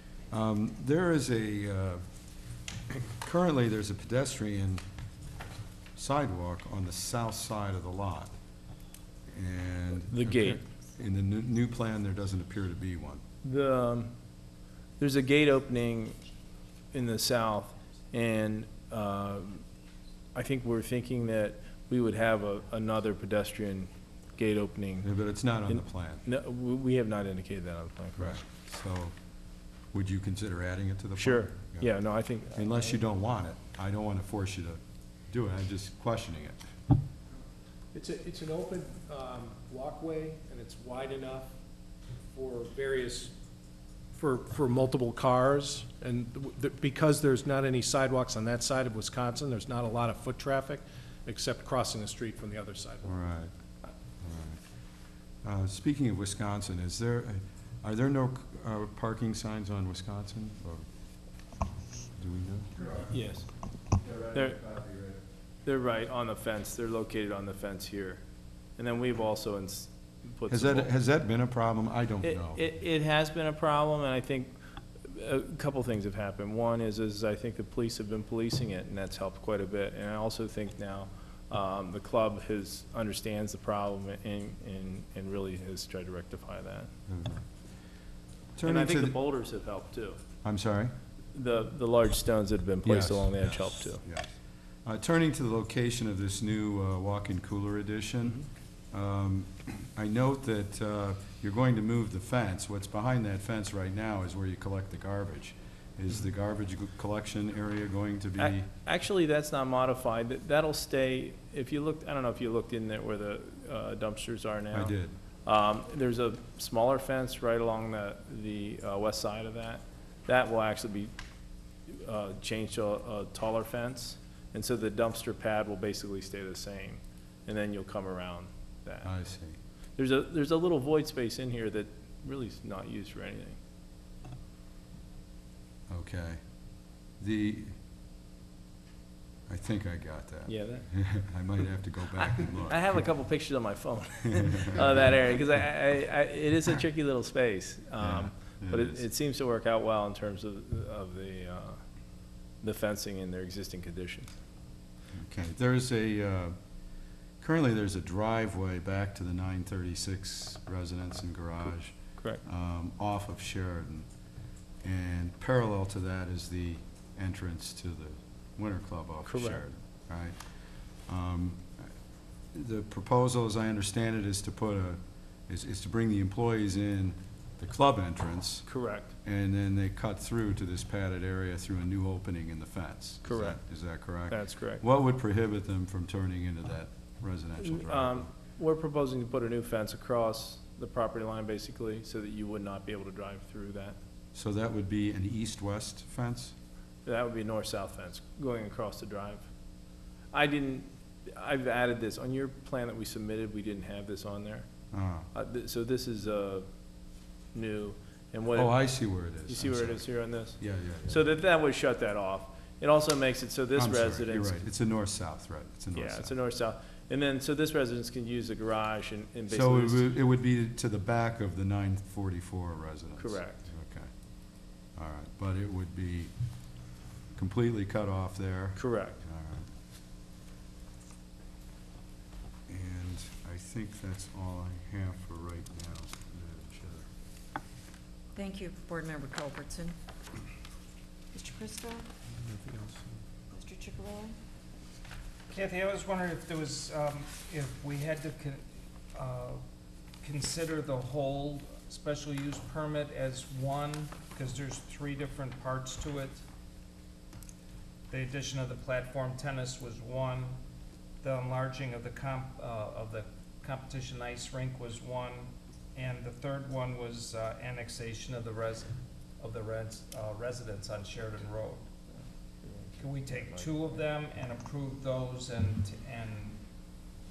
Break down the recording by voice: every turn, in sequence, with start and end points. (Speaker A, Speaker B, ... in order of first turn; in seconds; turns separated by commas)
Speaker A: 0.3-2.0, Speaker A: 2.9-4.8, Speaker A: 5.9-8.3, Speaker A: 9.3-13.2, Speaker B: 10.1-10.6, Speaker B: 13.4-14.1, Speaker B: 15.0-16.2, Speaker B: 16.9-19.6, Speaker B: 20.3-25.1, Speaker A: 25.0-26.2, Speaker B: 25.7-28.4, Speaker A: 28.2-29.1, Speaker A: 29.9-31.9, Speaker B: 31.2-32.6, Speaker A: 32.5-36.6, Speaker C: 37.9-41.5, Speaker C: 42.3-43.3, Speaker C: 44.1-53.2, Speaker A: 53.0-53.5, Speaker A: 54.2-54.6, Speaker A: 55.4-60.9, Speaker A: 62.1-63.1, Speaker B: 63.0-63.5, Speaker A: 63.9-65.2, Speaker B: 64.3-64.6, Speaker B: 65.6-68.2, Speaker B: 68.8-70.9, Speaker A: 70.5-72.6, Speaker B: 72.2-86.9, Speaker A: 87.1-87.4, Speaker A: 88.5-89.2, Speaker B: 88.6-90.2, Speaker A: 90.4-90.9, Speaker B: 91.3-94.0, Speaker A: 92.8-94.3, Speaker A: 94.8-108.7, Speaker B: 108.4-121.1, Speaker A: 114.7-115.1, Speaker B: 121.9-129.1, Speaker A: 129.0-129.6, Speaker B: 130.0-133.6, Speaker A: 135.9-136.4, Speaker A: 137.2-137.8, Speaker A: 139.5-142.9, Speaker B: 140.5-140.9, Speaker B: 142.2-151.8, Speaker A: 144.4-144.8, Speaker A: 148.0-149.0, Speaker B: 152.6-154.3, Speaker A: 155.1-156.5, Speaker A: 157.4-164.1, Speaker A: 164.8-171.9, Speaker B: 169.3-169.6, Speaker A: 172.5-178.7, Speaker B: 178.7-179.1, Speaker A: 179.2-188.3, Speaker B: 183.2-183.6, Speaker B: 184.3-184.8, Speaker B: 187.6-194.0, Speaker A: 194.3-196.5, Speaker B: 197.0-199.5, Speaker B: 200.3-204.7, Speaker A: 204.9-205.3, Speaker B: 205.3-206.7, Speaker B: 207.5-208.7, Speaker A: 208.5-211.2, Speaker B: 209.5-214.7, Speaker A: 213.7-216.3, Speaker B: 215.9-220.1, Speaker A: 219.5-224.1, Speaker B: 223.2-223.6, Speaker A: 224.9-226.3, Speaker A: 227.3-229.7, Speaker B: 228.8-229.2, Speaker A: 232.7-237.1, Speaker D: 238.3-239.9, Speaker D: 241.3-242.0, Speaker A: 242.3-243.2, Speaker D: 243.5-244.3, Speaker E: 245.5-248.6, Speaker E: 249.1-249.6, Speaker E: 250.2-256.4, Speaker E: 258.1-260.6, Speaker E: 261.2-271.9, Speaker B: 272.6-273.7, Speaker E: 273.0-276.6